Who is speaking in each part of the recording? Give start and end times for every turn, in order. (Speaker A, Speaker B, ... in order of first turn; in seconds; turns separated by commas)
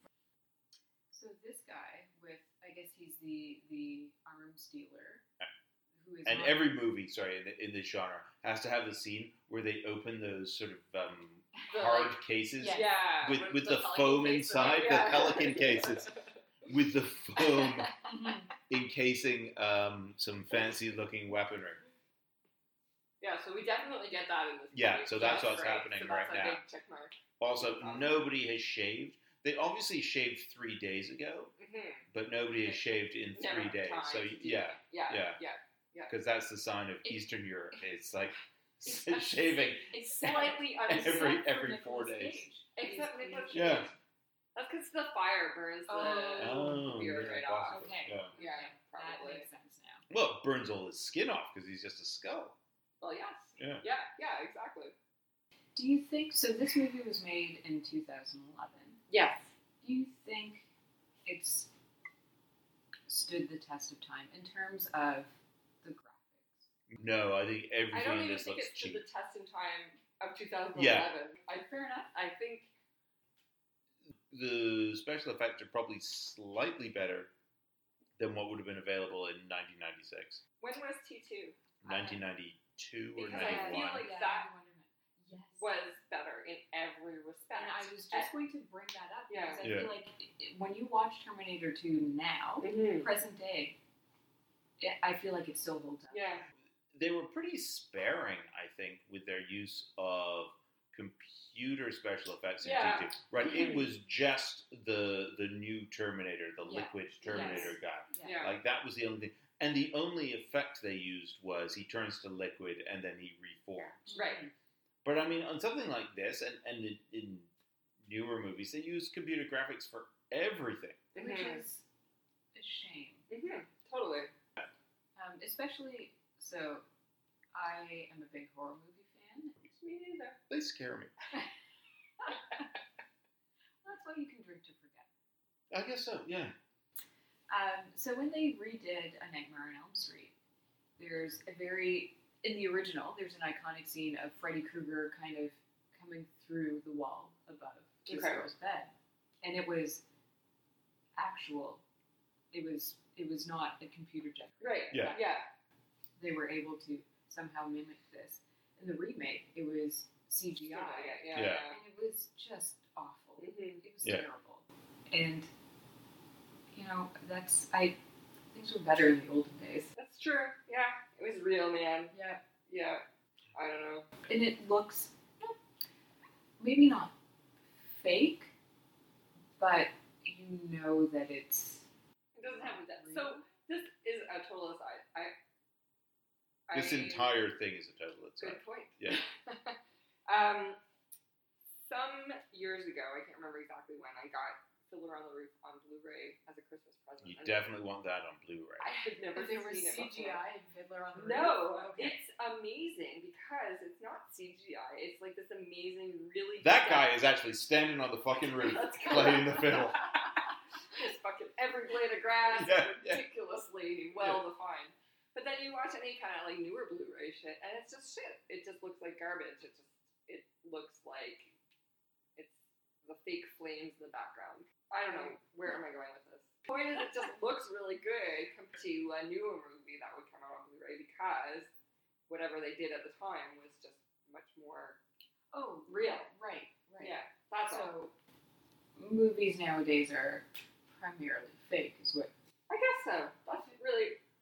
Speaker A: 1.1-5.2, Speaker A: 6.0-6.7, Speaker B: 6.2-16.1, Speaker C: 11.7-12.2, Speaker A: 12.6-13.0, Speaker C: 12.7-16.3, Speaker B: 16.6-17.9, Speaker C: 17.4-17.9, Speaker A: 18.1-18.5, Speaker B: 18.7-21.8, Speaker C: 23.2-28.2, Speaker B: 24.7-26.6, Speaker B: 27.4-31.5, Speaker C: 31.6-32.1, Speaker B: 32.1-35.4, Speaker C: 33.3-36.1, Speaker B: 36.1-42.5, Speaker A: 38.8-43.9, Speaker C: 40.2-41.4, Speaker C: 42.8-43.9, Speaker B: 43.5-43.9, Speaker C: 44.5-49.5, Speaker A: 45.9-46.9, Speaker B: 46.4-48.3, Speaker A: 47.7-50.0, Speaker B: 50.1-52.6, Speaker C: 53.0-54.9, Speaker B: 53.6-53.8, Speaker A: 55.8-59.0, Speaker C: 59.1-59.5, Speaker A: 59.8-60.6, Speaker A: 61.3-61.7, Speaker A: 63.1-66.7, Speaker B: 66.9-69.0, Speaker C: 67.9-72.7, Speaker B: 70.7-71.1, Speaker A: 71.5-72.1, Speaker B: 74.3-77.3, Speaker B: 78.2-80.4, Speaker C: 80.6-81.6, Speaker B: 81.8-84.1, Speaker A: 81.8-82.2, Speaker C: 83.2-84.5, Speaker A: 83.3-85.7, Speaker C: 85.6-88.3, Speaker A: 87.5-93.8, Speaker C: 89.3-89.7, Speaker B: 89.6-89.9, Speaker C: 92.6-93.1, Speaker A: 94.8-96.4, Speaker C: 96.1-96.4, Speaker B: 96.9-114.0, Speaker C: 102.6-103.8, Speaker A: 103.4-103.8, Speaker A: 106.7-108.5, Speaker C: 107.3-108.5, Speaker C: 114.0-114.4, Speaker A: 114.1-114.5, Speaker B: 115.0-117.5, Speaker B: 118.0-121.1, Speaker C: 121.2-121.6, Speaker A: 121.2-121.8, Speaker A: 122.5-123.3, Speaker C: 123.3-124.3, Speaker A: 125.2-126.8, Speaker A: 127.5-129.6, Speaker C: 129.7-130.4, Speaker B: 130.5-131.1, Speaker A: 132.2-132.7, Speaker A: 133.8-135.1, Speaker B: 135.7-136.5, Speaker A: 137.5-140.3, Speaker A: 141.0-150.0, Speaker C: 148.1-148.4, Speaker A: 151.2-151.8, Speaker A: 152.5-155.2, Speaker C: 154.6-155.5, Speaker B: 154.9-155.2, Speaker A: 156.2-165.5, Speaker C: 160.6-161.8, Speaker B: 161.3-161.7, Speaker C: 163.4-163.8, Speaker A: 166.7-168.0, Speaker A: 168.5-169.9, Speaker C: 170.0-172.1, Speaker A: 172.1-172.4, Speaker C: 172.7-173.0, Speaker C: 173.6-174.1, Speaker A: 174.3-175.6, Speaker A: 176.6-177.1, Speaker A: 177.8-178.5, Speaker A: 179.6-181.9, Speaker C: 182.3-185.3, Speaker A: 182.4-183.5, Speaker C: 186.7-187.3, Speaker B: 186.7-189.2, Speaker C: 188.4-189.8, Speaker C: 190.3-190.8, Speaker C: 191.8-197.7, Speaker B: 197.2-198.9, Speaker A: 198.8-202.2, Speaker C: 198.8-200.4, Speaker C: 201.2-207.1, Speaker B: 206.6-210.1, Speaker C: 208.4-210.1, Speaker C: 210.9-221.5, Speaker B: 212.5-213.2, Speaker C: 222.4-231.7, Speaker C: 232.3-235.0, Speaker A: 235.5-238.1, Speaker C: 235.9-236.3, Speaker C: 237.0-237.9, Speaker A: 239.0-242.3, Speaker C: 242.7-244.2